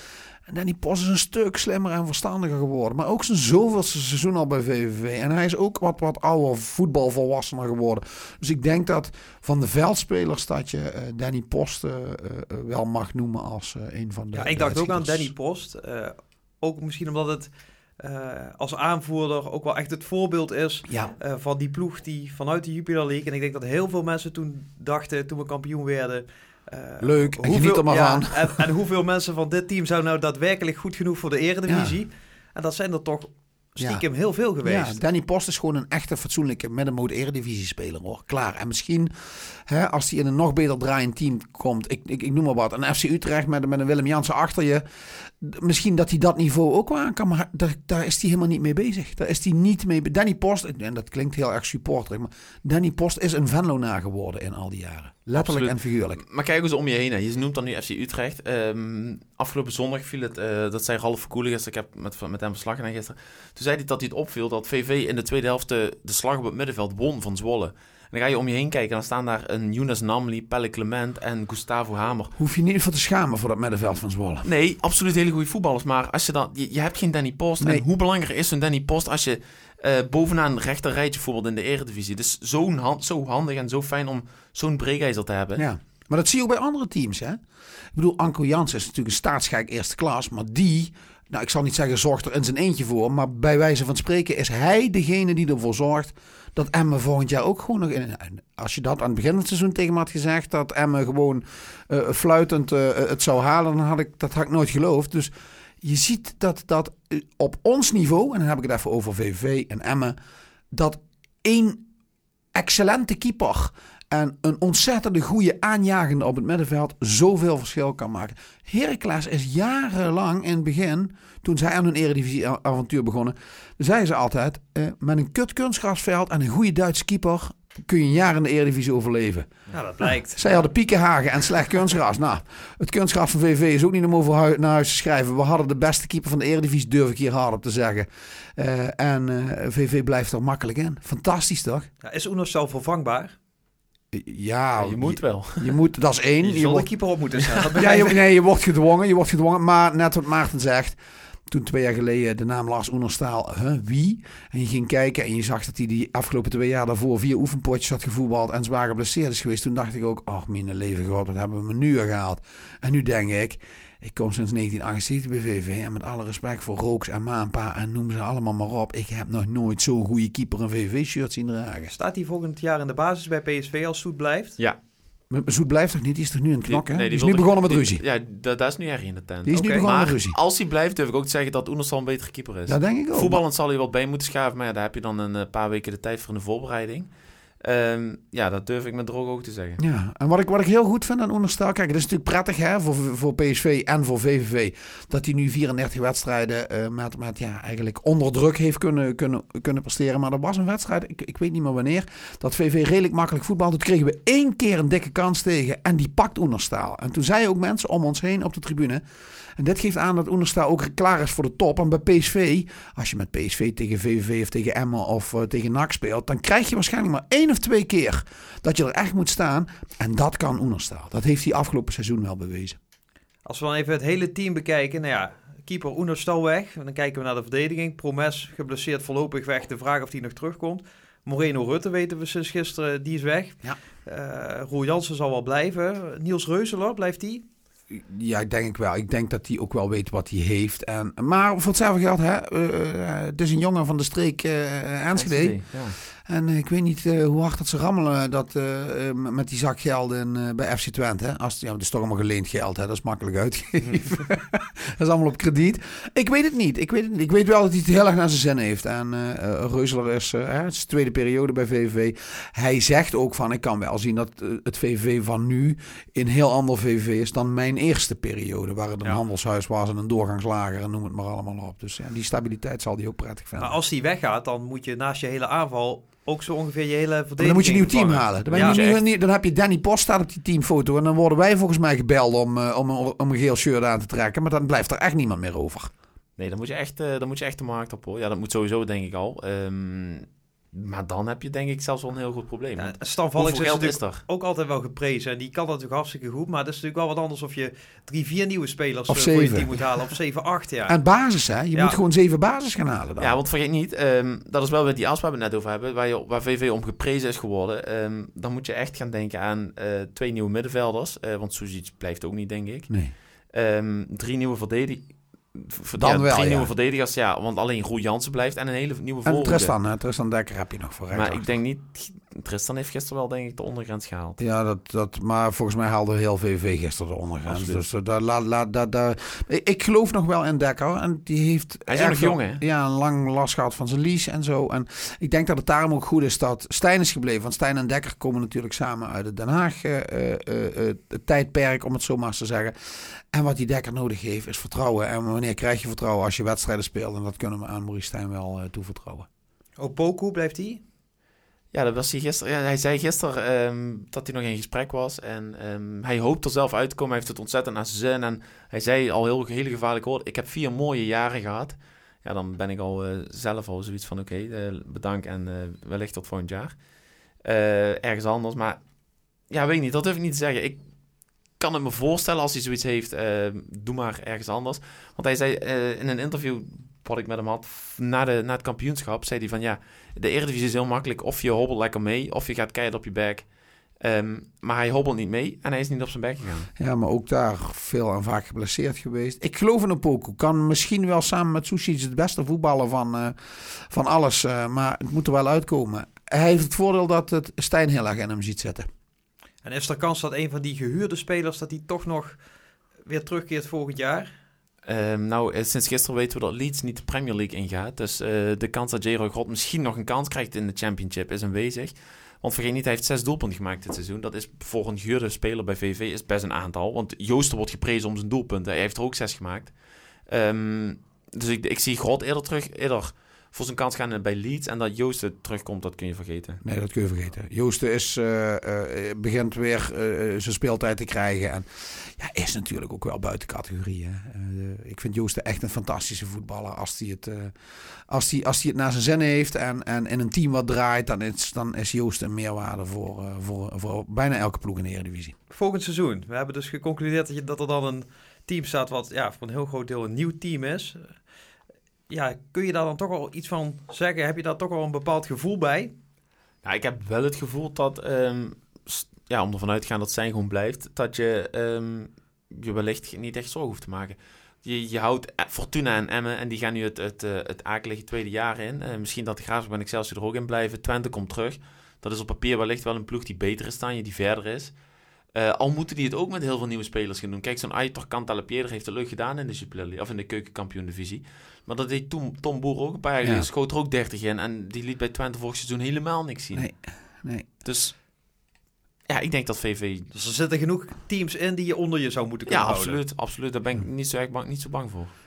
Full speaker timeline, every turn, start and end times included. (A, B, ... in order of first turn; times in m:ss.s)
0:00.5-0:15.3 A
0:14.4-0:35.0 B
0:27.0-0:28.6 A
0:31.7-0:32.0 A
0:34.6-0:56.2 A
0:55.4-1:12.3 C
1:12.4-1:14.5 A
1:14.4-1:25.6 C
1:25.6-1:27.4 A
1:27.9-1:50.2 A
1:50.7-1:51.9 A
1:52.5-2:21.9 A
2:09.7-2:10.7 B
2:22.0-2:23.4 B
2:24.1-2:26.9 A
2:24.8-2:25.8 C
2:26.4-2:28.2 B
2:27.8-2:31.0 A
2:31.5-2:51.9 A
2:51.9-2:54.6 B
2:55.3-2:58.0 A
2:56.7-3:07.1 C
2:59.4-3:00.4 A
2:59.5-2:59.8 B
3:02.7-3:03.4 A
3:07.6-3:09.8 C
3:09.8-3:29.0 A
3:29.6-3:42.8 A
3:43.4-3:57.4 B
3:57.9-4:33.8 A
4:05.1-4:06.0 C
4:33.6-4:38.8 B
4:37.4-4:45.9 A
4:38.5-4:39.0 C
4:46.4-4:54.2 C
4:52.8-5:01.0 B
4:59.1-4:59.7 A
5:00.9-5:03.4 A
5:03.2-5:13.0 C
5:13.5-5:19.7 C
5:16.0-5:16.7 A
5:19.2-5:21.4 A
5:21.1-5:24.4 C
5:24.4-5:49.3 A
5:27.5-5:27.8 C
5:31.9-5:32.6 C
5:49.8-5:50.8 B
5:51.7-6:06.8 C
6:07.4-6:08.8 C
6:09.5-6:10.8 C
6:11.6-6:23.5 C
6:24.0-6:26.7 C
6:26.8-6:38.9 A
6:39.6-6:42.4 B
6:43.0-6:44.3 B
6:44.8-6:59.7 C
7:00.3-7:06.6 C
7:06.6-7:17.5 A
7:18.1-7:25.4 A
7:25.5-7:31.2 B
7:32.1-7:35.9 B
7:36.6-7:54.7 C
7:55.3-8:06.7 C
8:03.2-8:03.5 A
8:06.6-8:07.5 A
8:07.6-8:08.0 C
8:09.1-8:10.1 C
8:10.1-8:13.0 B
8:12.5-8:15.1 C